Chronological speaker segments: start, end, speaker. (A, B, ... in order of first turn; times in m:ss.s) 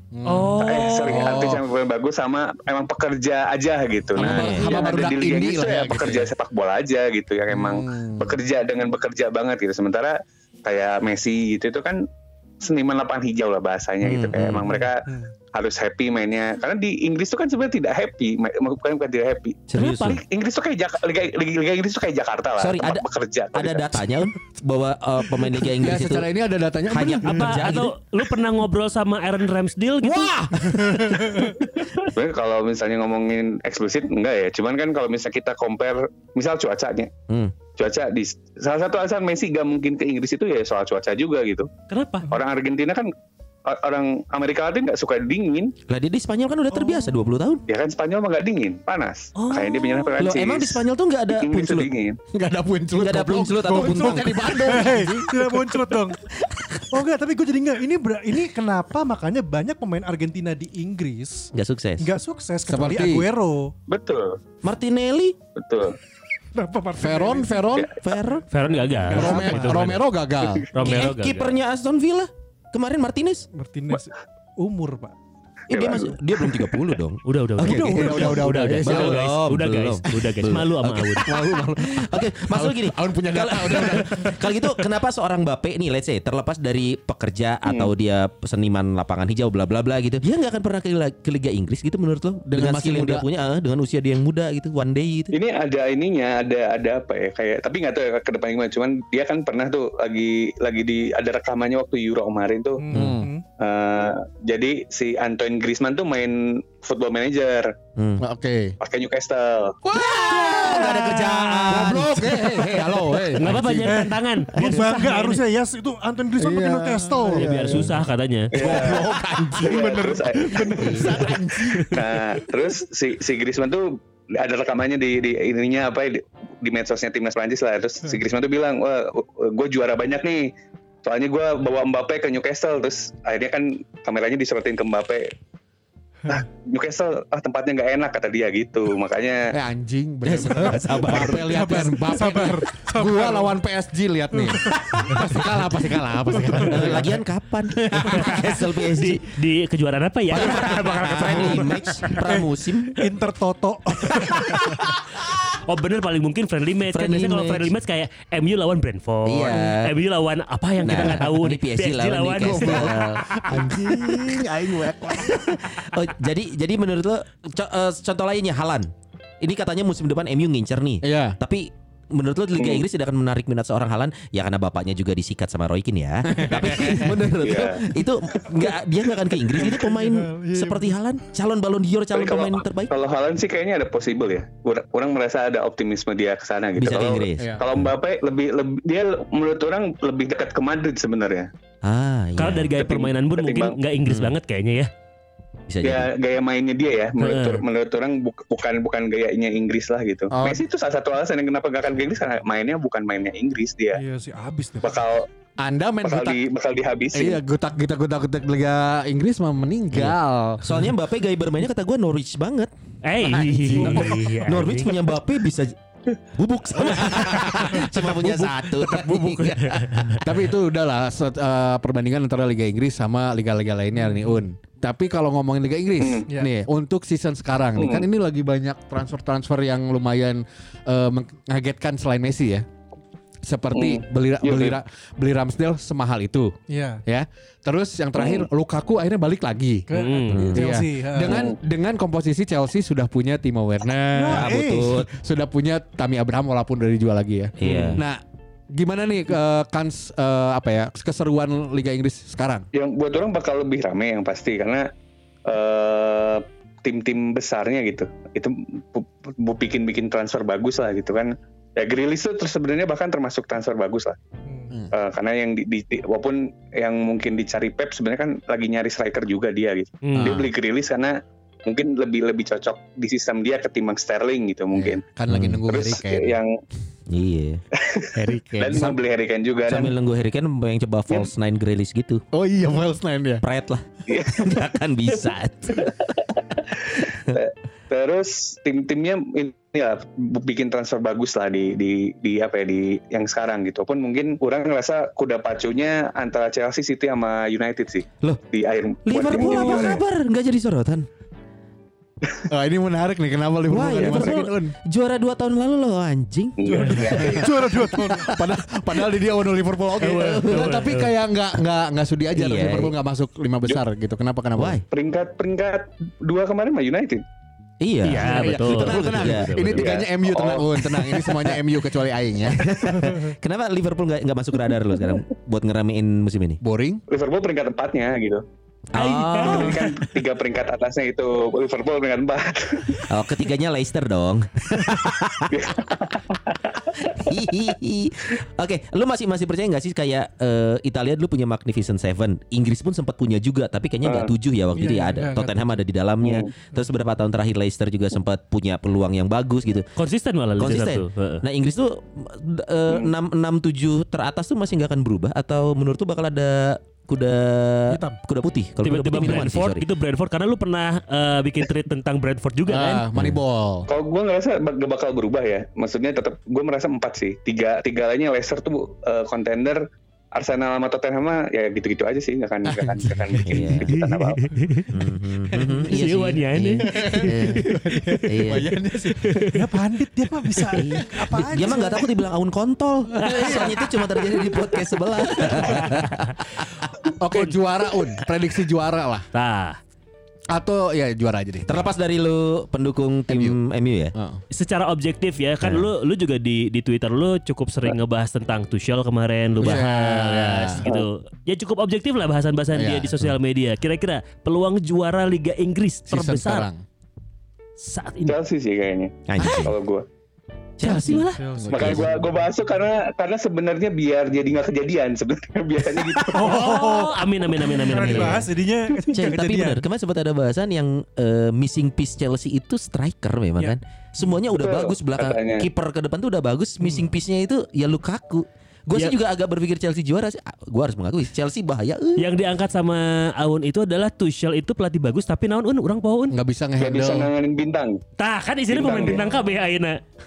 0:00.1-0:01.6 A
0:00.2-0:01.4 B
0:00.6-0:12.0 C
0:04.2-0:04.8 D
0:04.2-0:06.3 A
0:07.5-0:08.4 A
0:12.6-0:24.0 C
0:14.0-0:14.7 D
0:14.6-0:15.3 E
0:19.7-0:20.2 D
0:19.8-0:20.2 B
0:22.6-0:26.3 D
0:25.7-0:27.7 A
0:26.9-0:27.9 D
0:27.2-0:30.4 B
0:30.0-0:31.5 A
0:31.0-0:31.5 E
0:31.8-0:37.1 C
0:37.3-0:37.5 D
0:37.7-0:41.7 C
0:41.9-0:42.2 B
0:42.3-0:43.1 C
0:43.6-0:45.7 C
0:45.9-0:47.6 D
0:46.7-0:47.1 E
0:47.7-0:52.2 C
0:49.4-0:50.2 B
0:50.2-0:51.9 D
0:52.3-0:55.8 A
0:53.0-0:55.0 D
0:53.7-0:56.2 E
0:56.4-0:56.9 D
0:56.9-1:03.7 E
1:01.5-1:02.1 D
1:02.6-1:03.3 A
1:03.9-1:04.4 C
1:04.6-1:05.4 D
1:05.6-1:06.0 C
1:06.5-1:07.7 E
1:07.0-1:07.9 A
1:08.0-1:08.5 D
1:08.5-1:10.0 B
1:08.6-1:09.9 E
1:09.1-1:10.7 A
1:10.7-1:11.5 B
1:10.8-1:13.5 D
1:13.5-1:15.1 E
1:15.7-1:35.3 D
1:15.7-1:16.7 C
1:17.2-1:21.3 B
1:17.6-1:19.3 A
1:21.2-1:24.7 A
1:27.6-1:27.9 C
1:32.5-1:33.2 A
1:35.3-1:42.8 C
1:42.8-1:43.4 E
1:42.9-1:43.3 A
1:43.6-1:47.7 C
1:48.0-1:48.2 D
1:48.2-1:48.8 A
1:48.8-1:49.8 C
1:49.8-1:54.0 A
1:50.0-1:52.5 D
1:53.4-1:55.4 B
1:53.8-1:57.9 E
1:56.4-1:58.0 A
1:57.3-1:58.5 B
1:58.5-1:59.1 C
1:58.5-2:02.0 A
1:59.6-2:01.4 E
1:59.6-2:01.1 C
2:00.8-2:01.2 D
2:01.9-2:10.5 C
2:11.0-2:15.3 C
2:16.3-2:19.5 C
2:19.5-2:28.6 A
2:20.2-2:21.8 D
2:21.1-2:23.5 E
2:24.3-2:25.5 E
2:26.3-2:27.0 E
2:26.6-2:29.3 D
2:28.2-2:31.8 B
2:30.3-2:33.0 D
2:31.1-2:31.5 A
2:32.2-2:34.8 E
2:34.5-2:43.0 B
2:36.9-2:37.7 D
2:39.2-2:39.9 D
2:40.8-2:44.4 D
2:42.4-2:45.6 A
2:45.2-3:02.9 D
2:51.0-2:51.4 A
2:52.6-2:52.8 C
2:56.2-2:57.3 A
2:57.4-2:57.8 C
2:59.5-3:01.0 E
3:02.1-3:11.5 C
3:06.8-3:07.9 D
3:11.8-3:12.7 D
3:12.4-3:14.9 B
3:12.7-3:13.8 C
3:14.0-3:14.3 D
3:15.7-3:16.1 D
3:15.8-3:24.0 C
3:17.2-3:17.6 B
3:20.3-3:20.6 A
3:23.9-3:25.0 E
3:24.8-3:25.2 C
3:25.6-3:26.4 A
3:26.0-3:27.4 C
3:27.1-3:30.6 A
3:29.9-3:32.7 D
3:33.0-3:35.1 B
3:33.3-3:34.2 A
3:33.7-3:40.2 D
3:36.8-3:38.4 A
3:38.8-3:40.2 B
3:40.2-3:52.6 A
3:46.0-3:46.3 C
3:47.8-3:48.0 C
3:53.4-3:56.5 A
3:53.7-3:54.8 C
3:56.7-3:57.0 E
3:57.0-3:59.8 A
3:58.2-3:58.4 C
3:59.9-4:01.4 E
3:59.9-4:00.5 B
4:00.3-4:00.7 D
4:00.5-4:08.2 A
4:01.3-4:01.6 C
4:04.1-4:05.0 E
4:04.3-4:05.1 D
4:07.6-4:08.0 D
4:07.6-4:08.0 B
4:08.7-4:12.7 A
4:12.7-4:14.9 C
4:15.4-4:24.2 C
4:24.4-4:24.7 E
4:24.9-4:35.0 C
4:30.0-4:30.4 B
4:30.1-4:30.5 A
4:34.7-4:36.4 A
4:35.3-4:35.6 D
4:35.7-4:36.5 C
4:37.1-4:37.6 D
4:37.7-4:39.9 C
4:38.1-4:39.0 A
4:39.7-4:42.2 D
4:42.3-4:43.4 A
4:43.4-4:45.9 D
4:44.1-4:44.6 C
4:45.3-5:00.0 C
4:47.1-4:47.3 D
4:59.0-5:01.1 D
5:02.5-5:04.7 A
5:03.7-5:07.3 D
5:04.0-5:04.3 C
5:06.6-5:07.5 C
5:06.7-5:08.4 E
5:06.8-5:07.1 B
5:07.4-5:14.8 A
5:10.0-5:11.1 B
5:10.4-5:10.8 D
5:12.3-5:12.9 D
5:14.6-5:14.8 D
5:14.9-5:17.2 C
5:17.8-5:19.7 D
5:18.0-5:19.9 B
5:18.2-5:23.0 A
5:19.8-5:20.6 C
5:22.5-5:26.6 D
5:26.6-5:27.0 A
5:27.1-5:28.4 C
5:28.9-5:29.8 D
5:29.0-5:30.0 B
5:29.4-5:33.1 C
5:33.1-5:35.8 D
5:35.5-5:37.2 C
5:37.0-5:49.9 D
5:44.0-5:44.3 C
5:44.7-5:45.7 E
5:46.2-5:46.5 C
5:50.0-5:51.4 B
5:50.6-5:59.8 D
5:57.9-5:58.2 E
5:58.8-6:03.0 B
6:02.7-6:03.9 A
6:03.9-6:09.8 C
6:10.3-6:14.4 C
6:12.7-6:13.6 A
6:13.5-6:13.9 D
6:14.2-6:14.9 B
6:14.9-6:17.7 D
6:15.9-6:18.2 B
6:16.9-6:19.4 A
6:18.2-6:18.7 D
6:19.2-6:19.6 B
6:19.5-6:22.1 E
6:20.7-6:26.4 D
6:23.1-6:24.6 A
6:23.2-6:23.7 B
6:25.3-6:26.1 A
6:25.5-6:26.1 B
6:27.2-6:29.3 A
6:27.3-6:27.6 B
6:29.3-6:29.8 B
6:30.5-6:31.9 A
6:31.7-6:34.1 D
6:33.3-6:33.6 A
6:34.1-6:34.4 A
6:34.5-6:46.7 B
6:39.6-6:40.8 A
6:42.7-6:43.3 A
6:46.1-6:46.8 A
6:47.8-6:48.4 B
6:48.2-6:50.0 C
6:49.3-6:49.7 D
6:50.8-6:52.0 D
6:50.8-6:51.4 B
6:51.4-6:52.4 E
6:51.5-6:52.1 A
6:51.7-6:56.6 C
6:56.3-6:59.8 E
6:56.4-6:58.5 B
6:58.0-6:58.5 D
6:59.1-7:12.3 D
7:03.6-7:04.3 E
7:04.4-7:05.7 C
7:06.8-7:07.1 E
7:12.2-7:16.4 B
7:16.3-7:17.3 A
7:16.8-7:18.0 C
7:18.2-7:20.0 B
7:18.7-7:19.2 C